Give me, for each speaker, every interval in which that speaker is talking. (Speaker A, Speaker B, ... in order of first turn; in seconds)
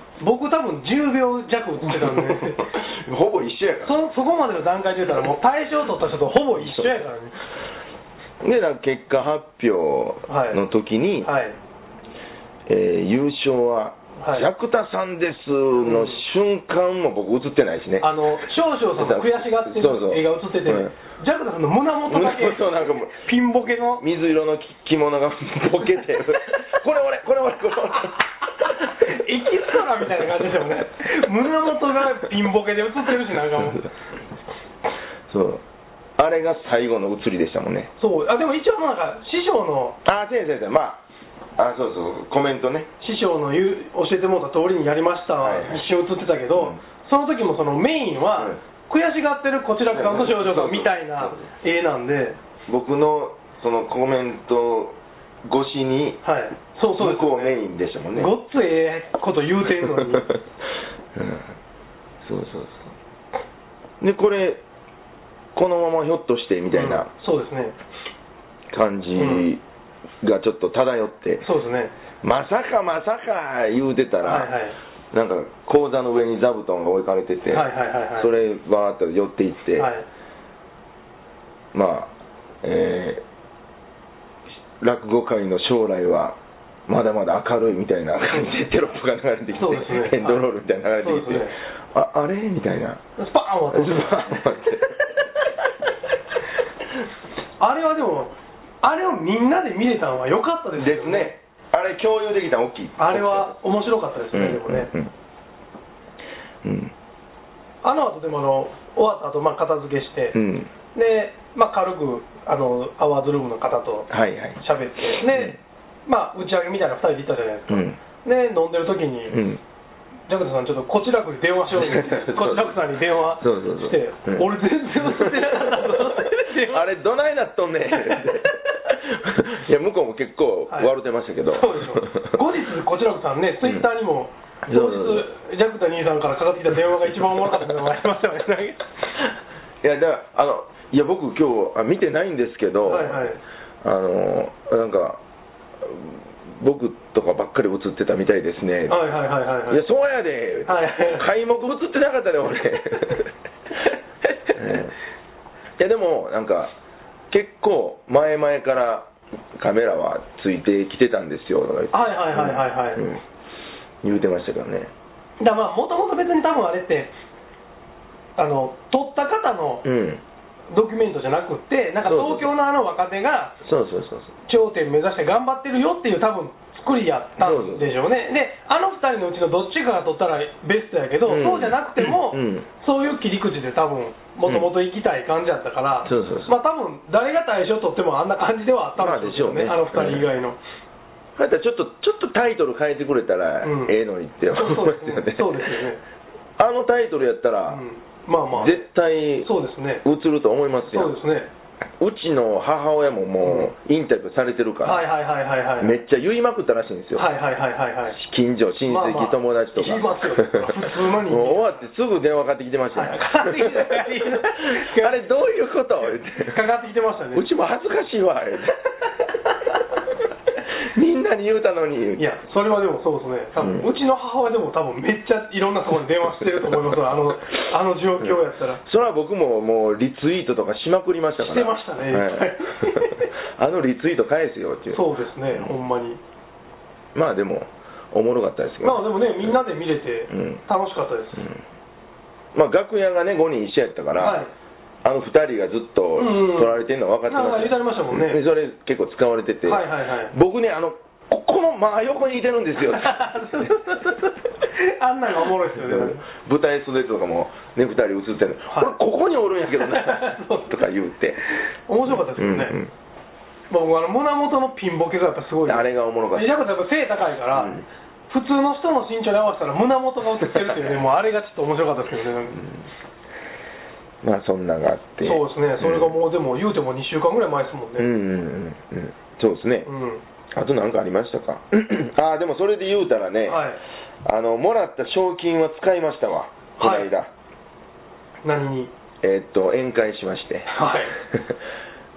Speaker A: 0.2-2.7, 3.8-7.4, 10.3-10.6, 11.2-11.6, 14.2-14.5, 15.8-16.2, 18.0-24.0, 28.6-33.9, 38.0-40.0, 43.0-52.4, 56.2-57.6, 58.1-60.3, 66.7-67.8, 69.2-69.5, 71.4-71.9, 74.2-74.8, 77.5-78.3, 79.8-80.1, 89.5-90.5, 91.0-91.6, 93.2-94.4, 97.6-101.3, 103.0-104.9, 107.8-110.4, 110.9-119.4, 120.3-126.8, 128.0-128.5, 131.5-139.1, 142.8-143.4, 148.9-149.8, 150.7-151.3, 161.9-163.1, 165.4-167.1, 168.4-169.9, 170.7-173.6, 174.5-190.6, 193.6-193.9, 194.5-196.0, 197.7-198.8, 199.4-200.1, 200.9-201.5, 203.4-203.7, 204.8-206.0, 207.2-208.2, 208.9-211.8, 212.9-215.3, 216.4-217.5, 222.2-228.8, 231.4-233.3, 234.9-236.2, 238.8-241.5, 244.2-244.5, 246.2-248.4, 249.7-250.3, 252.9-256.2, 259.8-260.7, 261.9-262.8, 263.7-272.7, 275.2-278.1, 279.9-280.2, 283.5-283.8, 286.8-287.1, 288.4-288.9, 290.7-291.1
Speaker B: 1.9-4.1, 8.4-11.3, 12.7-20.9, 22.1-23.2, 24.0-30.3, 35.3-35.6, 36.2-37.9, 40.0-41.0, 41.6-42.9, 45.4-45.9, 49.9-51.4, 52.7-56.2, 57.0-58.3, 59.9-60.4, 61.1-61.5, 62.2-62.9, 64.0-64.6, 65.5-67.1, 68.7-69.6, 70.2-71.5, 72.2-74.5, 75.1-79.9, 81.7-82.1, 82.6-83.2, 84.8-93.0, 93.7-95.6, 100.8-103.5, 104.3-105.1, 106.6-106.9, 110.3-110.7, 114.1-115.6, 117.7-118.0, 119.3-119.6, 121.7-132.4, 134.7-135.3, 139.8-143.3, 143.8-145.2, 145.8-149.0, 149.7-153.3, 154.5-154.9, 155.8-156.7, 157.3-163.2, 164.0-164.9, 169.8-170.2, 172.1-172.5, 173.6-174.3, 177.4-177.9, 181.3-182.7, 186.1-186.6, 189.0-190.3, 191.4-195.8, 196.6-197.8, 198.5-199.5, 200.0-201.2, 202.0-205.0, 205.8-207.3, 208.1-216.6, 217.3-218.9, 220.7-222.2, 223.6-223.9, 226.7-226.9, 228.2-235.8, 237.2-239.6, 240.3-240.6, 242.5-244.4, 245.0-253.7, 255.7-261.4, 262.1-262.9, 265.7-266.5, 267.5-267.9, 270.4-271.0, 274.2-276.1, 278.0-279.9, 280.5-283.7, 284.2-287.3, 289.2-291.6